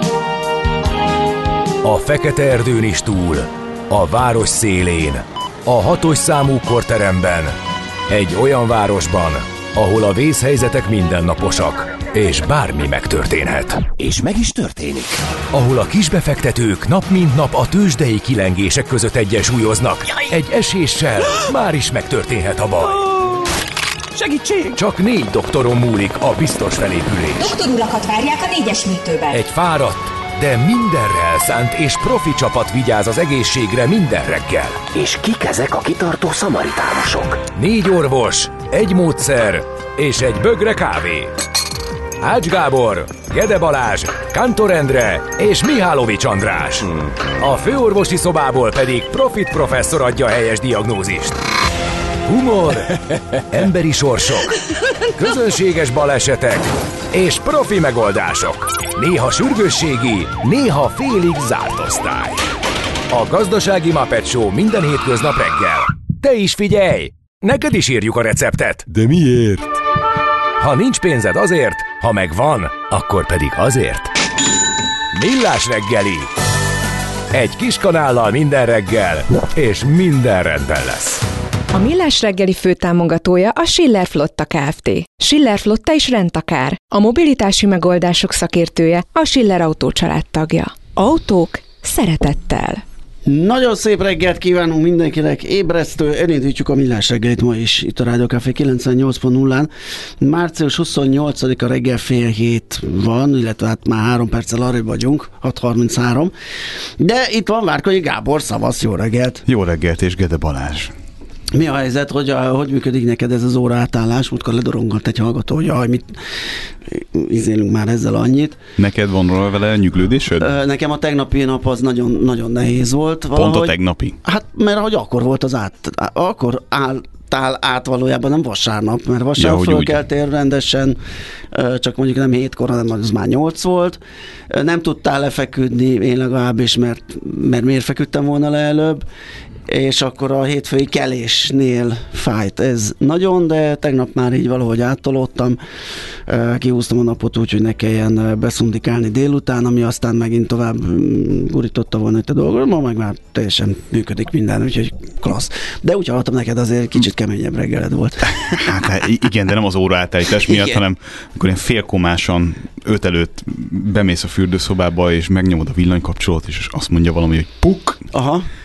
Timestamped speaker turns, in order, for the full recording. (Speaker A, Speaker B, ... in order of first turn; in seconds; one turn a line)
Speaker A: 1.8-7.5
Speaker A: 8.1-14.0
Speaker B: 14.0-15.1
Speaker A: 15.5-23.0
Speaker B: 24.2-24.5
Speaker A: 24.7-27.6
Speaker C: 27.4-29.4
Speaker A: 29.3-34.9
Speaker B: 34.9-37.4
Speaker A: 37.5-41.3
Speaker A: 42.2-51.4
Speaker A: 52.2-54.6
Speaker A: 55.1-62.4
Speaker A: 63.1-69.1
Speaker A: 70.6-74.2
Speaker A: 75.1-76.3
Speaker A: 77.3-81.2
Speaker D: 81.7-92.8
Speaker E: 93.3-106.3
Speaker E: 107.0-109.4
Speaker F: 109.5-110.9
Speaker E: 111.5-118.6
Speaker F: 118.8-120.5
Speaker E: 120.4-131.0
Speaker F: 123.3-124.2
Speaker F: 129.4-130.0
Speaker E: 131.5-139.1
Speaker E: 139.7-145.6
Speaker E: 146.3-158.8
Speaker F: 158.4-168.0
Speaker E: 160.4-160.8
Speaker E: 168.1-168.5